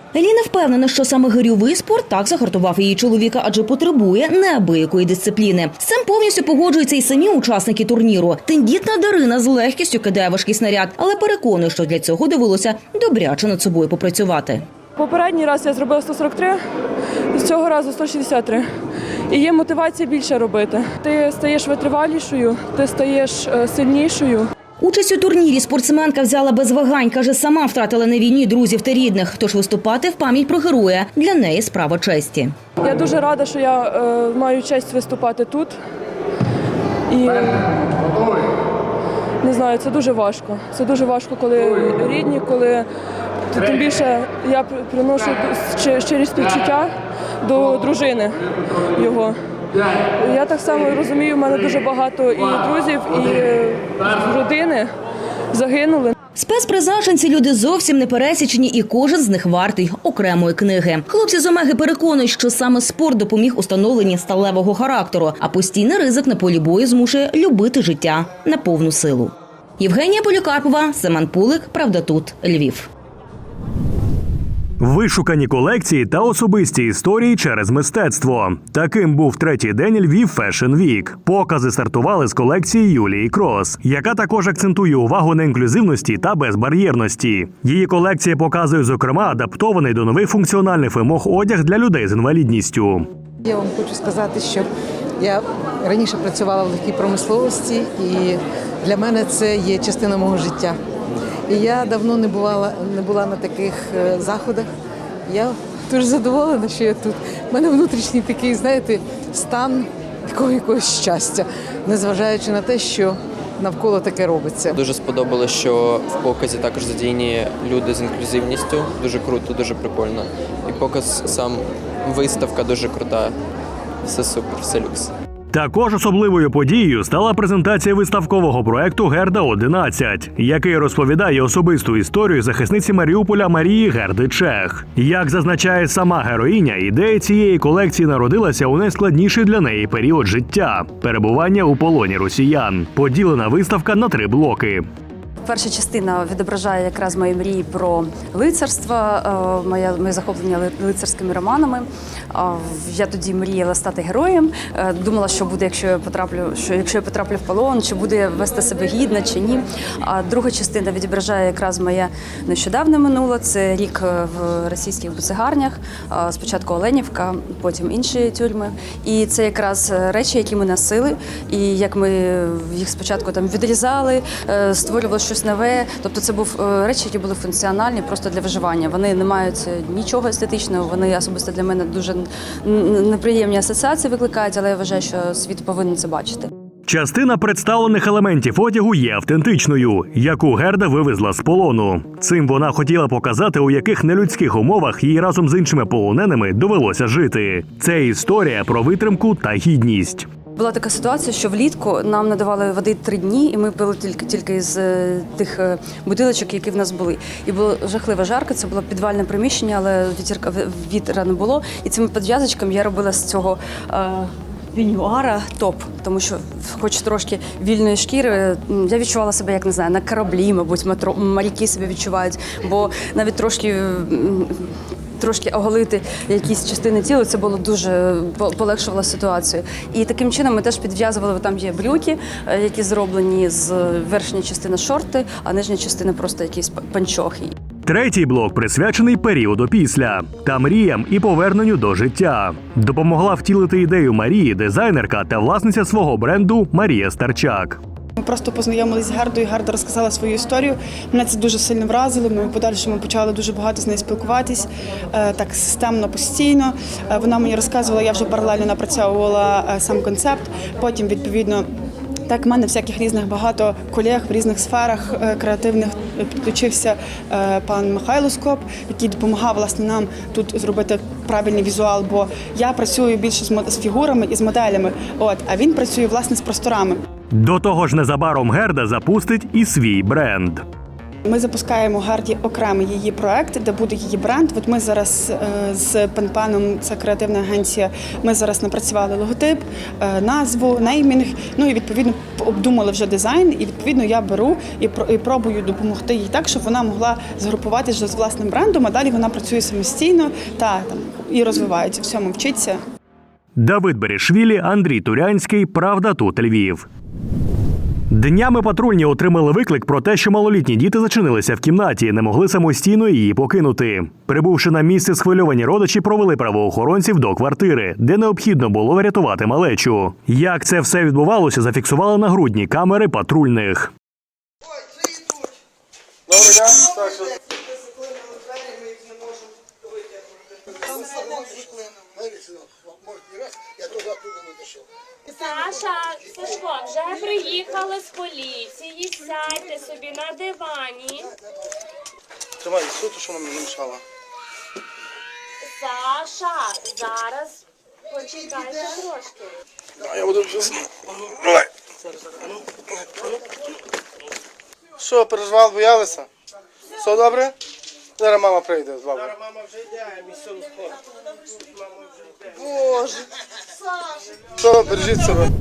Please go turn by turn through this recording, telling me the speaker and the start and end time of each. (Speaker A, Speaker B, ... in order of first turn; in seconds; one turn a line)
Speaker A: 0.1-14.6
Speaker B: 14.9-16.6
Speaker B: 17.3-18.7
Speaker B: 19.3-24.5
Speaker A: 24.8-32.5
Speaker B: 32.8-35.8
Speaker B: 37.1-37.9
Speaker B: 39.4-42.9
Speaker B: 43.5-49.4
Speaker B: 50.1-54.9
Speaker B: 55.5-56.1
Speaker A: 56.4-72.9
Speaker C: 74.8-93.1
Speaker D: 93.4-94.7
Speaker D: 95.2-100.8
Speaker D: 101.5-104.7
Speaker D: 105.3-114.8
Speaker E: 114.7-123.3
Speaker E: 124.0-125.1
Speaker C: 125.5-144.8
Speaker F: 145.4-186.5
Speaker C: 186.9-200.2
Speaker F: 200.6-237.6
Speaker C: 237.8-247.8
Speaker G: 248.2-261.6
Speaker G: 262.3-277.0
Speaker C: 277.3-280.6
Speaker G: 281.2-302.8
Speaker C: 303.6-306.9
Speaker C: 308.1-323.9
Speaker H: 335.3-341.3
Speaker I: 342.6-343.9
Speaker H: 345.7-347.6
Speaker H: 348.1-349.5
Speaker I: 355.0-356.2
Speaker I: 357.1-357.5
Speaker I: 358.2-359.0